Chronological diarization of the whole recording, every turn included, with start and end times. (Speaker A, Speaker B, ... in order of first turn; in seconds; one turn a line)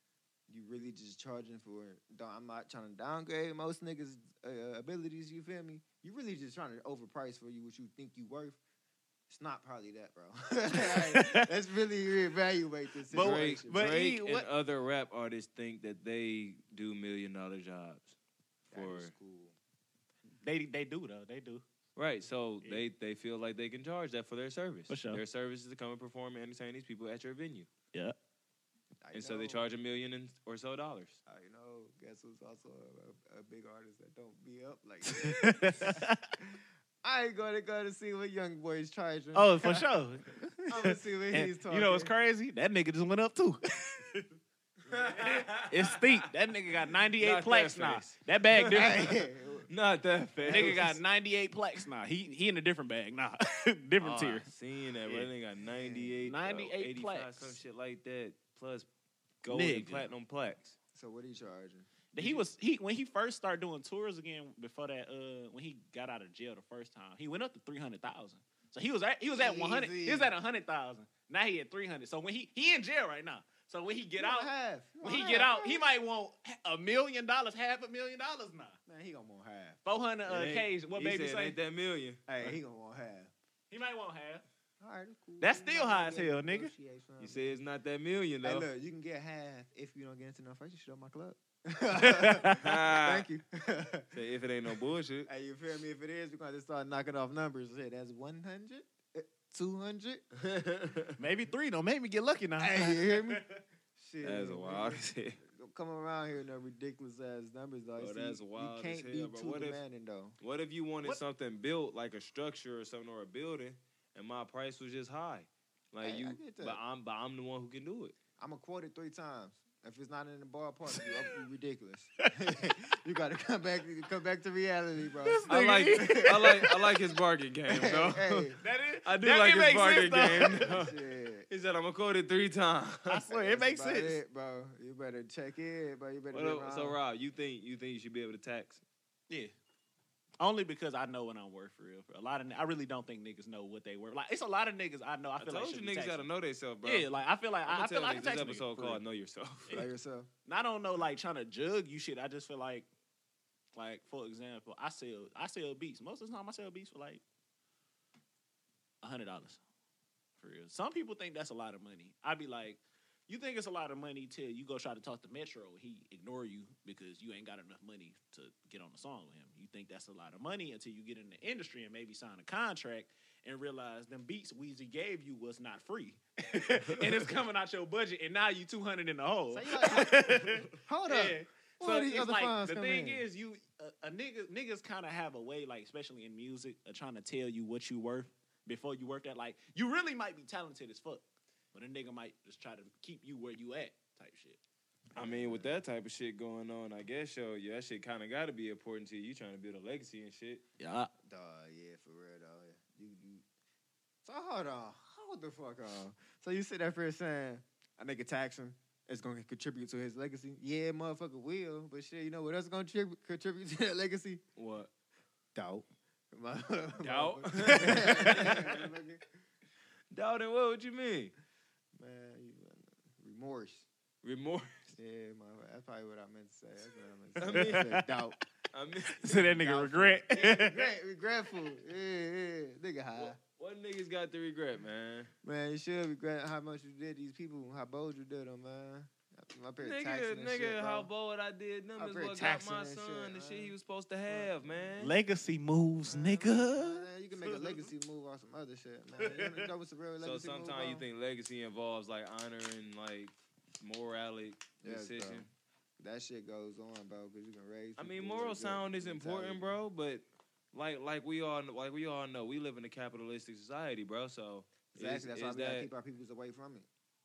Speaker A: 0.5-8.6
Speaker A: 9.3-13.9
Speaker B: 10.8-11.5
Speaker B: 13.1-14.5
Speaker C: 13.1-18.2
Speaker C: 18.7-19.1
Speaker A: 18.7-19.6
Speaker B: 20.4-21.6
Speaker C: 22.0-27.7
Speaker B: 24.9-25.2
Speaker A: 29.0-29.7
Speaker C: 29.1-31.2
Speaker A: 31.3-39.9
Speaker B: 35.0-36.3
Speaker B: 39.3-44.3
Speaker A: 40.7-42.1
Speaker C: 44.9-46.2
Speaker B: 45.1-49.1
Speaker C: 47.2-51.0
Speaker A: 48.7-49.7
Speaker A: 50.4-50.9
Speaker B: 50.5-54.5
Speaker C: 54.0-58.9
Speaker A: 55.6-56.2
Speaker B: 56.2-57.6
Speaker C: 59.4-60.8
Speaker B: 59.5-60.1
Speaker A: 60.9-61.9
Speaker B: 62.1-74.5
Speaker C: 62.2-62.4
Speaker A: 69.3-70.3
Speaker A: 74.2-75.8
Speaker B: 75.0-78.8
Speaker A: 78.9-79.8
Speaker B: 79.8-81.6
Speaker C: 80.3-82.3
Speaker A: 82.3-83.3
Speaker B: 83.7-84.5
Speaker A: 84.8-87.6
Speaker B: 85.4-86.7
Speaker C: 87.2-88.7
Speaker A: 88.4-94.2
Speaker B: 92.0-92.6
Speaker C: 92.6-93.3
Speaker C: 94.1-95.3
Speaker A: 95.3-100.2
Speaker C: 100.3-101.2
Speaker B: 101.2-103.5
Speaker A: 102.6-110.4
Speaker C: 104.2-105.4
Speaker C: 108.0-109.8
Speaker C: 110.4-118.2
Speaker A: 116.0-116.8
Speaker A: 118.4-126.6
Speaker B: 125.2-126.6
Speaker C: 125.5-133.2
Speaker A: 127.7-128.6
Speaker B: 128.6-130.7
Speaker A: 130.4-131.5
Speaker B: 133.1-134.2
Speaker A: 133.3-137.0
Speaker C: 136.3-138.8
Speaker B: 140.4-146.3
Speaker C: 145.4-147.1
Speaker B: 146.8-149.0
Speaker C: 147.7-149.8
Speaker A: 149.7-150.3
Speaker B: 150.5-152.9
Speaker B: 153.7-157.2
Speaker B: 159.0-159.6
Speaker B: 160.4-194.6
Speaker A: 179.5-183.2
Speaker A: 195.2-195.8
Speaker C: 195.2-200.6
Speaker B: 200.8-201.1
Speaker A: 201.2-203.4
Speaker A: 204.2-214.4
Speaker C: 214.6-214.9
Speaker A: 215.6-219.2
Speaker C: 217.0-218.9
Speaker C: 220.1-221.3
Speaker A: 222.0-223.9
Speaker C: 224.2-224.9
Speaker A: 224.9-228.4
Speaker C: 227.4-227.9
Speaker B: 227.5-228.1
Speaker C: 228.7-229.6
Speaker B: 229.2-230.8
Speaker A: 229.4-233.4
Speaker C: 230.3-230.7
Speaker C: 233.2-235.3
Speaker A: 235.4-241.1
Speaker C: 239.8-245.2
Speaker A: 242.0-243.8
Speaker A: 244.3-245.0
Speaker B: 245.0-247.9
Speaker A: 246.1-251.1
Speaker B: 249.2-249.7
Speaker C: 250.2-255.5
Speaker A: 254.8-255.5
Speaker A: 256.0-259.8
Speaker C: 258.0-265.9
Speaker A: 264.9-266.9